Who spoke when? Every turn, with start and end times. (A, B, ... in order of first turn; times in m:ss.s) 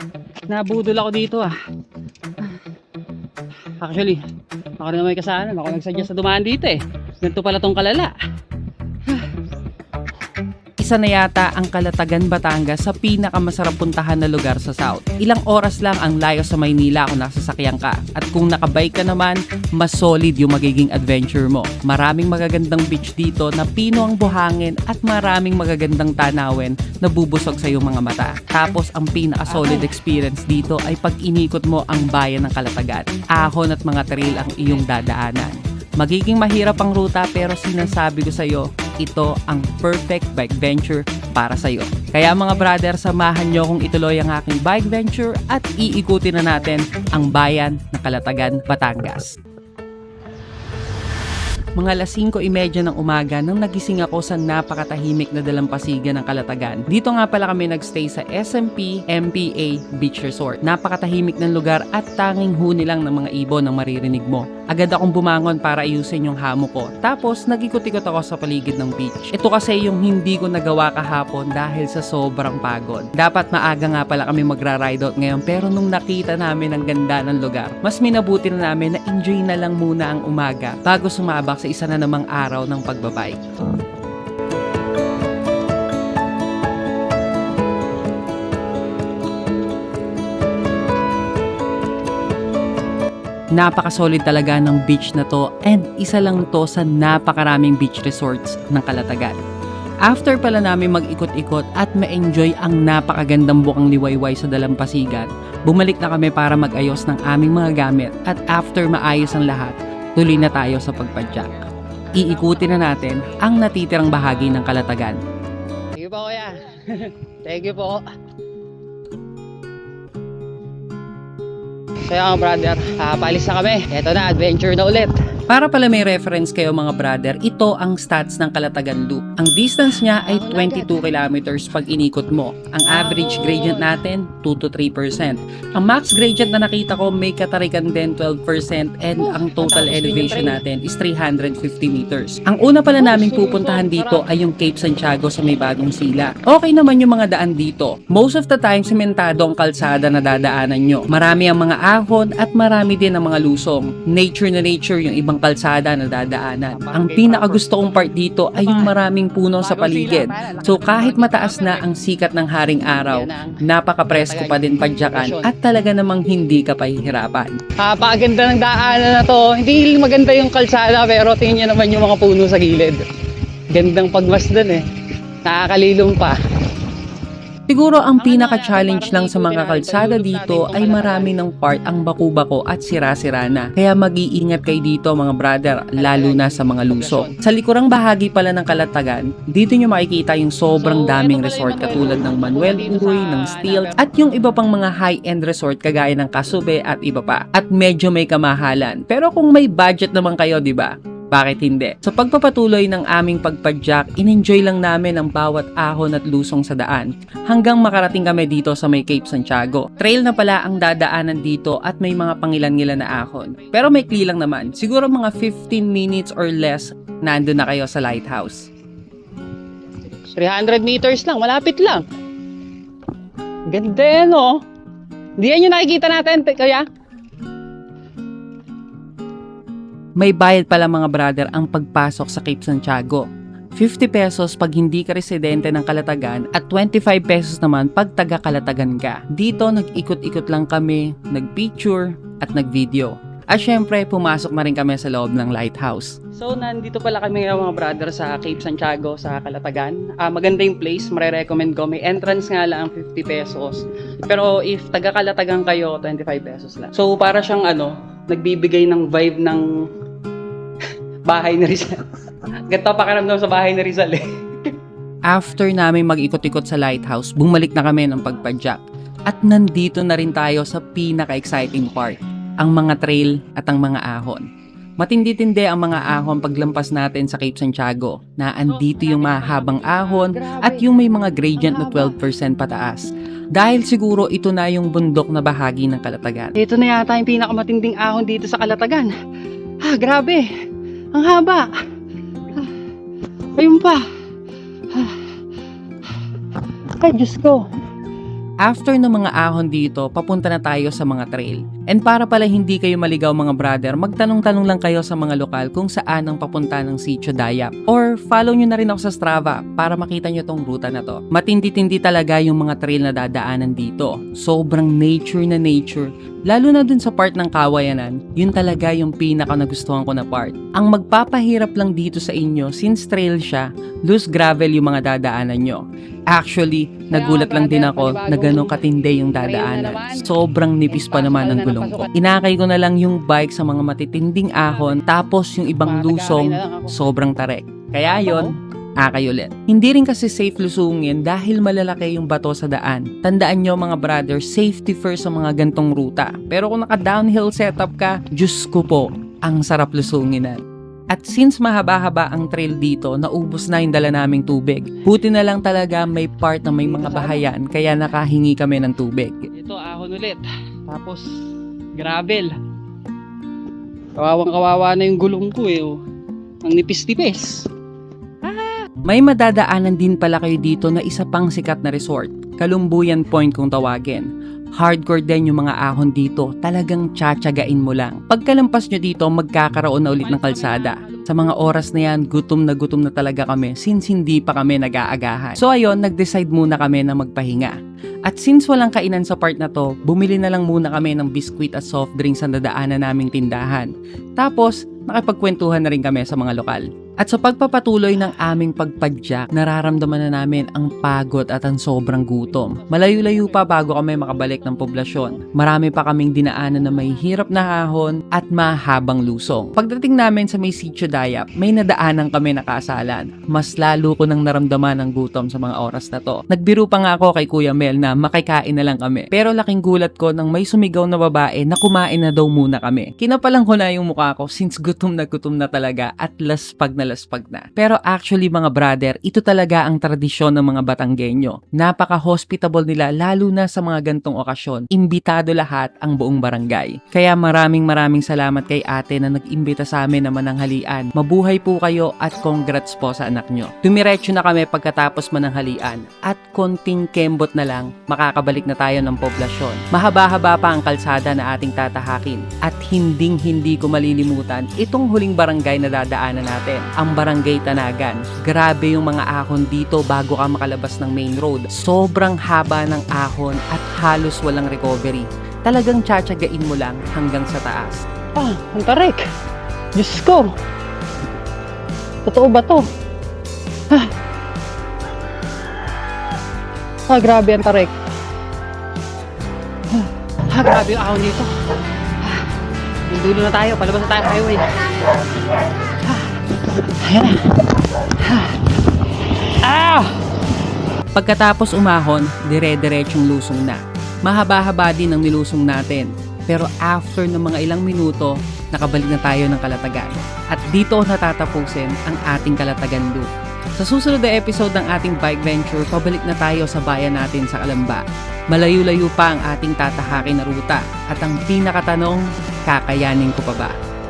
0:00.5-0:01.5 A
0:03.8-0:04.2 A
0:04.8-0:08.1 A
0:10.8-0:49.3 B
0:29.4-0:29.9 A
0:34.4-0:34.8 A
0:51.8-1:23.3 B
1:33.6-1:39.4 B
1:40.0-1:51.5 B
1:52.1-1:55.2 B
1:52.2-1:52.8 A
1:56.0-1:58.0 A
2:02.1-2:05.1 A
2:05.5-2:47.5 B
2:10.0-2:11.0 A
2:12.9-2:13.9 A
2:19.2-2:20.6 A
2:23.0-2:24.2 A
2:36.7-2:37.6 A
2:38.6-2:38.9 A
2:39.6-2:41.8 A
2:43.0-2:43.6 A
2:44.1-2:45.5 A
2:47.8-2:53.0 A
2:53.7-2:54.8 A
2:55.4-2:56.4 A
2:57.7-3:38.7 B
2:58.2-3:01.3 A
3:06.0-3:07.3 A
3:10.7-3:14.0 A
3:40.2-3:42.0 A
3:43.7-3:44.6 A
3:45.4-3:46.8 A
3:50.2-3:53.2 B
3:53.8-4:06.1 B
4:06.4-4:19.6 A
4:21.2-4:22.0 A
4:22.7-4:24.3 A
4:25.3-4:34.4 B
4:35.0-4:46.5 B
4:38.6-4:40.9 A
4:41.6-4:42.2 A
4:46.6-4:49.1 A
4:49.8-4:50.4 A
4:51.1-4:51.7 A
4:53.6-4:54.0 A
4:54.9-4:55.2 A
4:57.0-4:57.6 A
4:58.6-5:25.8 B
5:26.3-5:50.6 B
5:27.1-5:28.8 A
5:29.3-5:30.3 A
5:30.9-5:32.1 A
5:34.7-5:35.0 A
5:35.8-5:36.9 A
5:38.0-5:38.5 A
5:51.1-5:59.5 B
5:56.8-5:57.5 A
5:59.5-6:01.2 A
6:02.0-6:02.5 A
6:04.2-6:06.0 A
6:06.6-6:07.6 A
6:08.4-6:14.3 B
6:14.8-6:27.8 B
6:20.2-6:21.8 A
6:28.3-7:48.0 B
6:42.5-6:45.2 A
7:48.4-7:49.2 A
7:50.0-7:50.5 A
7:52.2-7:52.8 A
7:57.1-7:57.9 A
7:59.9-8:01.5 A
8:03.1-8:04.7 A
8:05.9-8:06.3 A
8:07.0-8:07.5 A
8:08.2-8:08.6 A
8:09.6-8:10.1 A
8:11.1-8:23.3 B
8:23.8-8:33.7 B